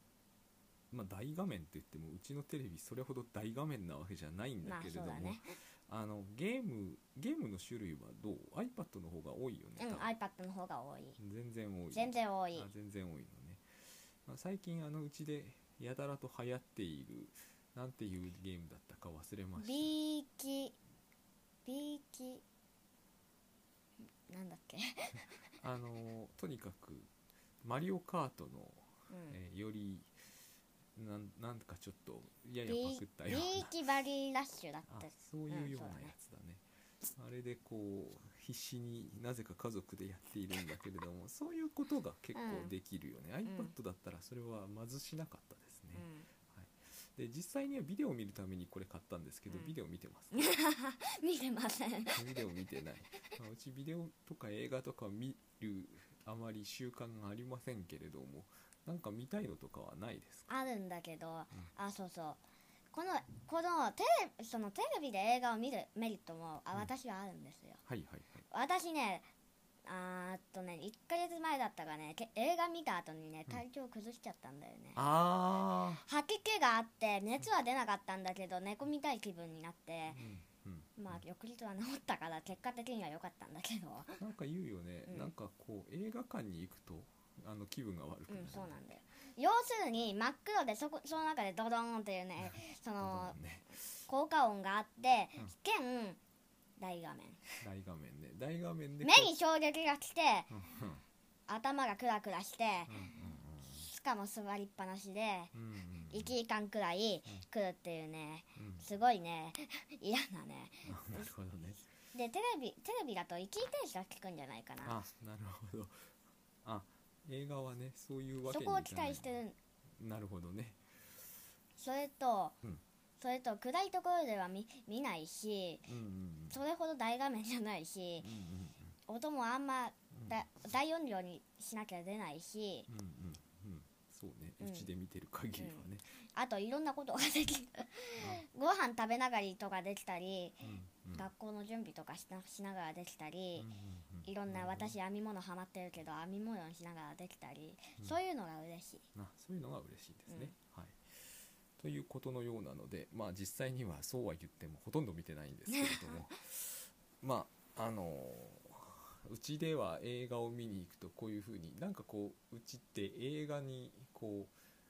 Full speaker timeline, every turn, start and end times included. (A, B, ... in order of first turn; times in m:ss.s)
0:00.9-0:10.1 A
0:04.6-0:05.5 B
0:09.8-0:11.2 B
0:11.2-0:19.9 A
0:11.9-0:12.7 B
0:19.6-0:20.8 B
0:21.6-0:22.4 B
0:24.2-0:25.3 B
0:25.6-0:27.1 A
0:27.6-0:30.1 A
0:29.1-0:29.4 B
0:30.9-0:33.8 A
0:32.6-0:36.1 B
0:34.9-0:36.6 A
0:37.2-0:50.4 A
0:42.3-0:42.7 B
0:43.4-0:43.7 B
0:45.9-0:46.3 B
0:49.5-0:49.7 B
0:50.3-0:52.3 B
0:52.1-1:00.5 A
1:00.5-1:07.8 B
1:07.8-1:08.4 A
1:08.5-1:09.3 B
1:09.8-1:15.0 B
1:14.9-1:16.0 A
1:16.0-1:20.2 B
1:20.1-1:21.2 A
1:21.0-1:24.2 B
1:24.2-1:28.8 A
1:25.1-1:25.3 B
1:28.3-1:33.4 B
1:32.4-1:34.0 A
1:34.1-1:36.2 B
1:36.8-1:37.4 B
1:37.6-1:39.3 A
1:39.0-1:40.5 B
1:40.5-1:41.0 A
1:41.5-1:43.0 B
1:42.9-1:43.9 A
1:43.8-1:45.5 B
1:45.5-1:46.3 A
1:46.1-1:51.3 B
1:48.6-1:48.9 A
1:50.8-1:51.9 A
1:52.1-1:55.0 B
1:54.8-1:56.1 A
1:56.6-1:59.4 A
1:58.5-1:59.6 B
2:00.0-2:00.8 A
2:01.8-2:02.6 B
2:03.2-2:05.9 B
2:05.8-2:06.6 A
2:06.5-2:08.3 B
2:08.2-2:09.0 A
2:09.1-2:12.9 B
2:10.1-2:10.4 A
2:12.9-2:16.2 A
2:14.6-2:14.9 B
2:15.6-2:23.7 B
2:18.2-2:18.4 A
2:20.6-2:21.3 A
2:23.6-2:25.0 A
2:24.2-2:29.0 B
2:29.1-2:31.2 A
2:30.3-2:30.5 B
2:31.8-2:44.5 A
2:35.7-2:36.2 B